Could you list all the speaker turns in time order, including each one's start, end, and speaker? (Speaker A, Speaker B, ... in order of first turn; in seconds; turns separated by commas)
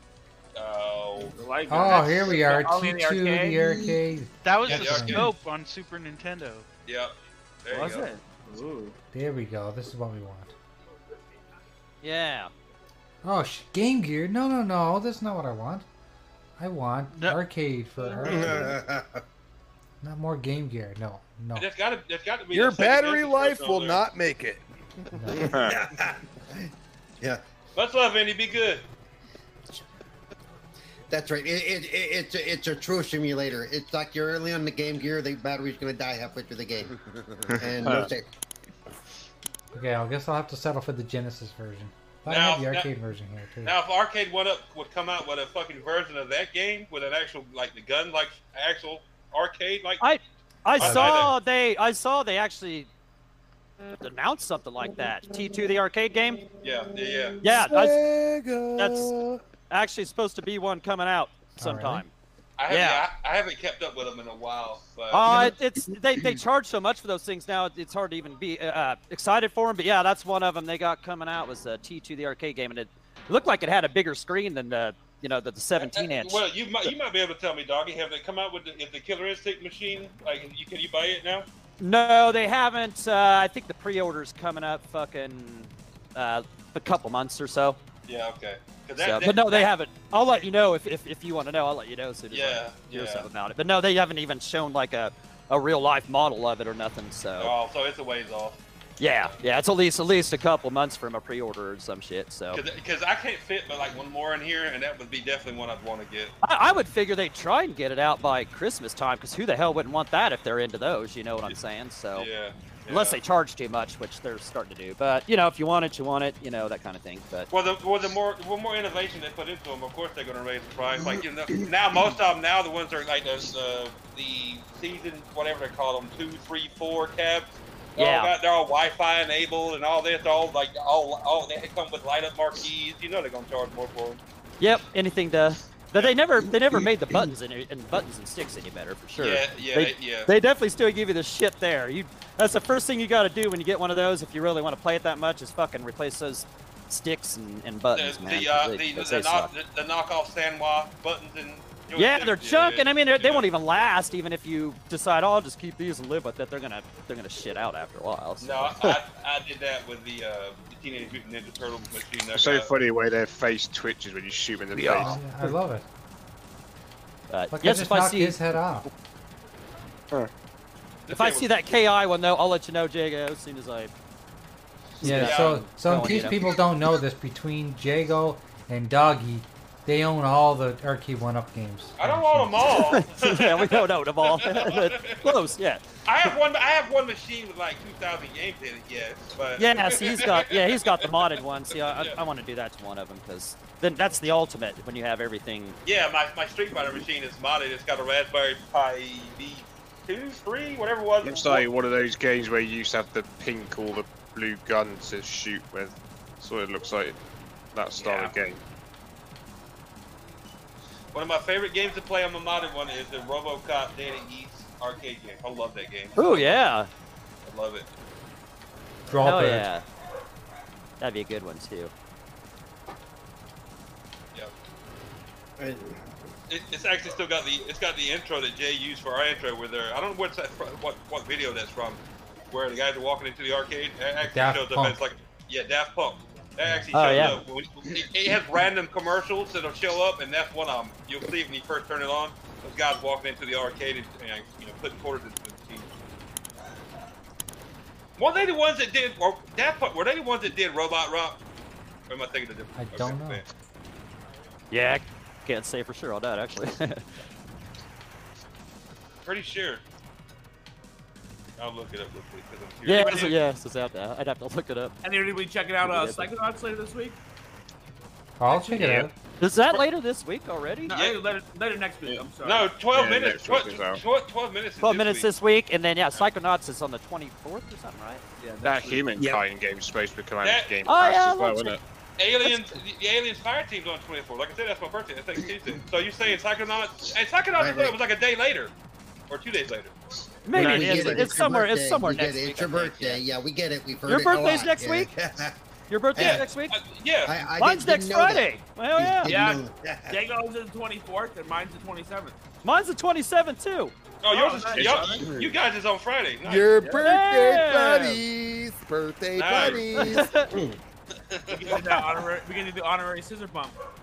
Speaker A: 0.5-1.4, Speaker B: 1.3-3.8, Speaker C: 1.7-5.3, Speaker D: 4.4-6.7, Speaker A: 4.6-5.3, Speaker A: 6.8-7.1, Speaker A: 7.6-8.1, Speaker B: 7.7-8.9, Speaker C: 9.1-10.5, Speaker E: 12.0-12.5, Speaker C: 13.2-15.8, Speaker C: 16.6-18.8, Speaker D: 17.1-17.4, Speaker F: 18.2-19.2, Speaker C: 20.0-21.7, Speaker A: 21.5-24.0, Speaker G: 22.5-25.2, Speaker C: 25.1-25.5, Speaker H: 25.3-25.8, Speaker F: 25.4-26.7, Speaker A: 27.7-28.9, Speaker F: 31.1-38.2, Speaker H: 37.8-38.1, Speaker C: 39.7-43.8, Speaker A: 42.3-42.9, Speaker A: 43.6-50.1, Speaker E: 50.0-52.9, Speaker A: 50.8-51.3, Speaker C: 50.8-51.3, Speaker E: 54.0-56.5, Speaker A: 56.6-57.4, Speaker E: 57.4-58.0, Speaker G: 57.5-59.4, Speaker E: 58.8-59.1, Speaker E: 59.7-62.1, Speaker C: 61.6-62.0, Speaker A: 62.6-65.3, Speaker E: 62.7-63.1, Speaker E: 65.1-76.4, Speaker A: 75.7-81.5, Speaker E: 81.8-87.8, Speaker A: 88.0-89.7, Speaker E: 89.0-97.5, Speaker A: 92.3-93.3, Speaker A: 97.4-98.6, Speaker E: 99.0-102.6, Speaker A: 102.5-106.3, Speaker E: 106.4-112.3, Speaker A: 112.1-113.2, Speaker E: 112.9-117.5, Speaker A: 117.5-134.2, Speaker E: 128.0-128.3, Speaker E: 134.6-149.5, Speaker A: 139.2-140.3, Speaker A: 147.9-153.5, Speaker E: 151.9-158.8, Speaker A: 158.4-162.8, Speaker H: 162.3-165.2, Speaker G: 164.8-165.1, Speaker C: 164.8-165.8, Speaker E: 167.3-168.5, Speaker C: 167.5-168.9, Speaker A: 171.1-171.5, Speaker E: 171.1-173.9, Speaker E: 175.0-176.4, Speaker C: 175.0-182.7, Speaker A: 175.1-175.7, Speaker A: 182.0-185.4, Speaker E: 182.7-185.9, Speaker A: 186.0-192.2, Speaker E: 189.6-195.8, Speaker A: 195.8-201.7, Speaker H: 201.2-207.2, Speaker H: 207.7-208.6, Speaker B: 208.0-208.3, Speaker A: 211.1-216.7, Speaker E: 216.2-216.9, Speaker A: 217.4-217.9, Speaker C: 219.1-219.7, Speaker E: 219.2-219.8, Speaker E: 221.0-221.9, Speaker F: 225.6-226.0, Speaker A: 226.5-245.9, Speaker C: 234.3-235.0, Speaker E: 236.9-237.4, Speaker A: 248.2-251.4, Speaker A: 252.1-253.4, Speaker C: 252.8-253.4, Speaker E: 254.7-257.1, Speaker A: 259.2-259.8, Speaker A: 261.6-263.4, Speaker E: 262.8-264.9, Speaker B: 262.9-263.3, Speaker B: 265.0-267.2, Speaker E: 265.8-266.3, Speaker C: 268.4-269.1, Speaker H: 268.7-269.1, Speaker E: 269.4-270.9, Speaker B: 270.9-272.7, Speaker A: 270.9-271.2, Speaker A: 272.4-275.3, Speaker H: 272.9-274.0, Speaker E: 274.8-278.2, Speaker B: 278.4-279.1, Speaker H: 278.6-281.8, Speaker F: 279.2-279.4, Speaker A: 280.4-280.8, Speaker E: 280.9-281.8, Speaker A: 282.2-288.7, Speaker E: 282.4-282.7, Speaker F: 287.6-287.9, Speaker A: 289.3-289.9, Speaker E: 290.4-293.2, Speaker F: 290.5-295.6, Speaker E: 294.1-295.1, Speaker E: 295.9-296.8, Speaker F: 296.1-296.4, Speaker A: 296.2-297.4, Speaker F: 297.3-300.2, Speaker E: 297.5-299.3, Speaker B: 299.2-302.4, Speaker E: 302.6-303.9, Speaker A: 304.2-306.7, Speaker B: 304.3-305.2, Speaker H: 304.7-305.6, Speaker G: 306.4-310.3, Speaker E: 306.9-308.2, Speaker A: 309.3-309.9, Speaker E: 309.9-310.5, Speaker F: 310.5-310.8, Speaker A: 311.3-311.9, Speaker B: 311.5-313.8